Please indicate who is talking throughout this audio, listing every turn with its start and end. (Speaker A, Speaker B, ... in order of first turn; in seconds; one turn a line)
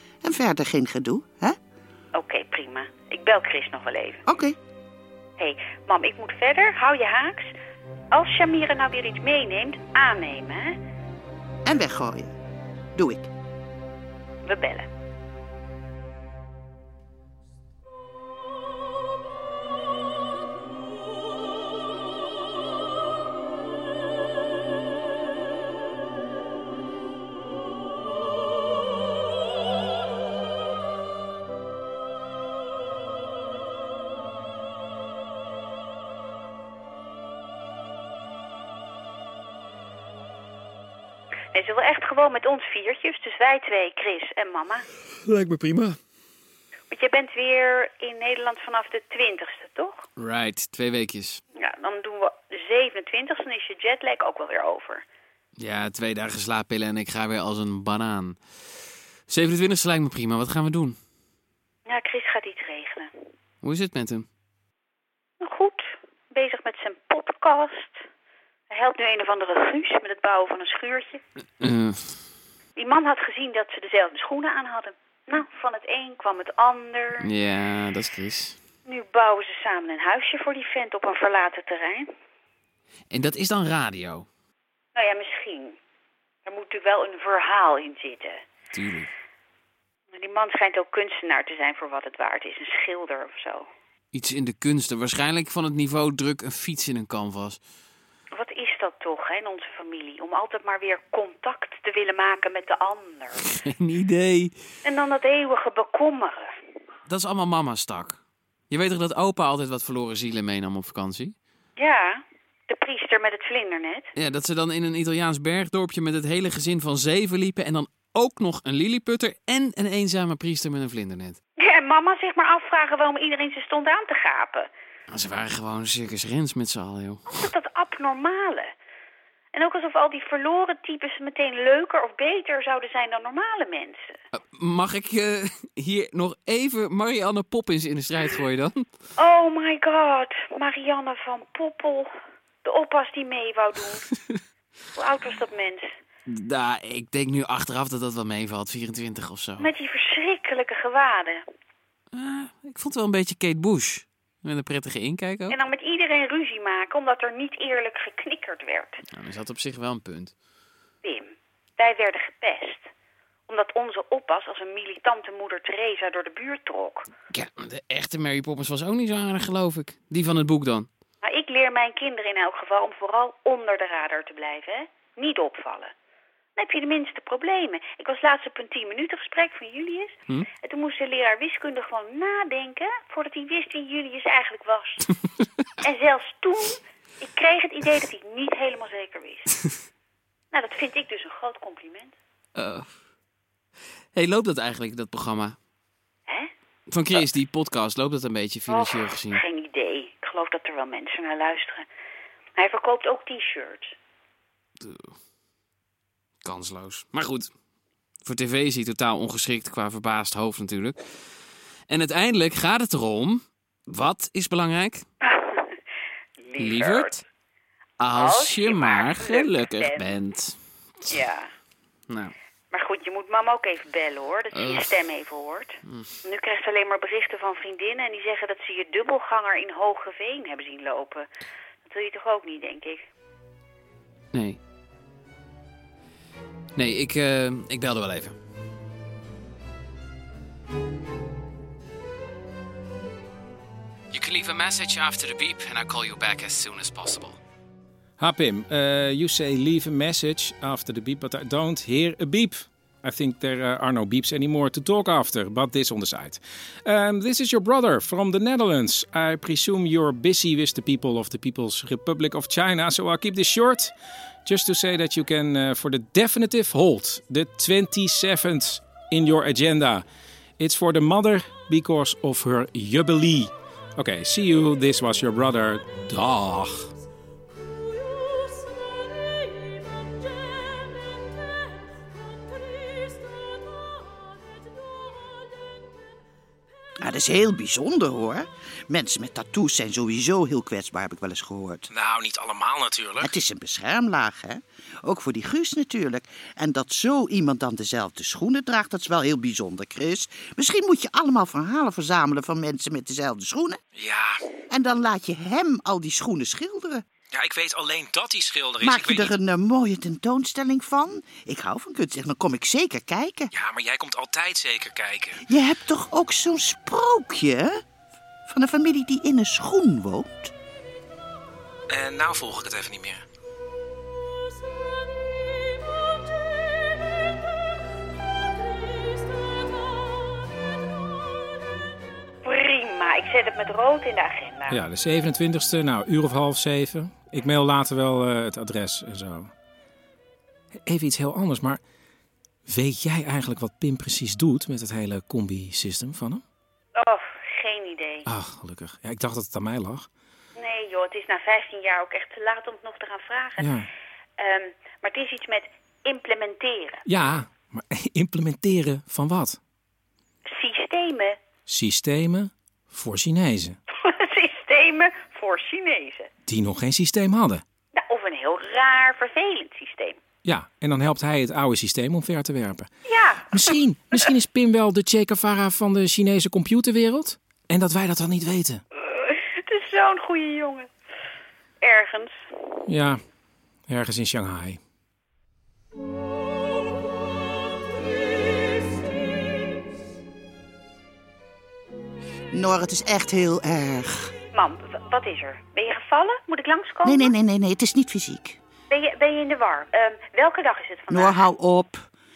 Speaker A: 0.2-1.6
Speaker B: 2.1-4.2
Speaker A: 4.2-4.6
Speaker B: 5.4-7.5
Speaker B: 8.1-10.8
Speaker A: 11.6-12.3
Speaker A: 12.9-13.3
Speaker B: 14.4-14.9
Speaker B: 41.5-44.8
Speaker C: 45.2-46.0
Speaker B: 46.9-50.1
Speaker C: 50.2-51.4
Speaker B: 51.5-55.0
Speaker C: 55.6-58.4
Speaker C: 59.3-61.0
Speaker B: 61.9-63.1
Speaker C: 63.6-64.2
Speaker B: 65.4-68.0
Speaker B: 68.7-71.2
Speaker C: 71.6-72.2
Speaker B: 72.8-77.3
Speaker C: 77.2-78.6
Speaker B: 78.9-82.1
Speaker C: 83.1-84.3
Speaker B: 84.9-85.8
Speaker B: 86.4-88.4
Speaker C: 88.7-89.1
Speaker B: 90.1-93.7
Speaker C: 94.1-97.6
Speaker B: 98.3-103.4
Speaker C: 103.4-104.5
Speaker B: 104.8-106.5
Speaker C: 107.1-108.2
Speaker C: 108.7-111.3
Speaker B: 111.8-114.1
Speaker C: 114.2-121.4
Speaker B: 121.6-124.7
Speaker C: 125.1-127.4
Speaker B: 127.3-128.7
Speaker B: 129.5-134.1
Speaker C: 134.3-138.8
Speaker B: 139.2-142.1
Speaker B: 142.6-144.0
Speaker B: 144.9-145.9
Speaker C: 146.3-149.7
Speaker B: 149.6-151.4
Speaker C: 152.1-155.6
Speaker B: 155.5-159.0
Speaker C: 159.1-160.3
Speaker B: 161.0-162.9
Speaker B: 163.5-167.1
Speaker C: 167.3-170.9
Speaker B: 171.2-175.9
Speaker B: 176.6-185.1
Speaker B: 185.8-189.5
Speaker B: 190.5-192.1
Speaker C: 192.6-192.9
Speaker C: 194.1-195.6
Speaker C: 196.9-199.4
Speaker B: 198.7-201.8
Speaker B: 202.6-203.9
Speaker C: 204.8-205.2
Speaker C: 206.4-207.5
Speaker C: 208.2-211.0
Speaker C: 211.9-215.0
Speaker B: 215.2-215.8
Speaker B: 216.4-217.2
Speaker C: 216.6-217.2
Speaker C: 218.0-220.6
Speaker B: 218.1-220.1
Speaker B: 221.1-221.5
Speaker C: 222.1-222.3
Speaker B: 222.7-231.2
Speaker C: 224.5-225.0
Speaker C: 225.8-226.1
Speaker B: 231.8-233.0
Speaker C: 234.3-234.6
Speaker C: 236.8-238.3
Speaker C: 244.1-247.4
Speaker D: 248.2-263.9
Speaker D: 264.4-270.0
Speaker D: 270.6-276.9
Speaker A: 287.0-291.9
Speaker D: 291.9-293.3
Speaker A: 293.2-303.8
Speaker D: 303.9-304.4
Speaker A: 304.7-307.0
Speaker D: 307.3-309.3
Speaker A: 308.8-313.5
Speaker D: 313.5-315.4
Speaker A: 315.4-317.8
Speaker A: 318.4-320.5
Speaker D: 321.9-323.2
Speaker B: 332.4-334.8
Speaker D: 334.7-339.5
Speaker D: 340.8-341.8
Speaker D: 342.7-346.4
Speaker B: 346.9-348.3
Speaker D: 348.2-350.1
Speaker B: 350.6-353.7
Speaker D: 353.6-353.9
Speaker B: 354.4-357.0
Speaker D: 357.1-359.6
Speaker B: 360.5-361.4
Speaker D: 361.7-363.8
Speaker B: 363.9-366.3
Speaker D: 366.5-367.6
Speaker B: 367.9-370.2
Speaker D: 370.4-372.9
Speaker B: 373.1-374.3
Speaker D: 373.5-378.8
Speaker B: 379.0-380.9
Speaker B: 381.8-382.4
Speaker D: 382.9-383.2
Speaker D: 383.9-384.8
Speaker A: 392.5-394.3
Speaker B: 394.5-397.3
Speaker A: 397.0-398.6
Speaker B: 398.9-401.4
Speaker A: 401.1-402.1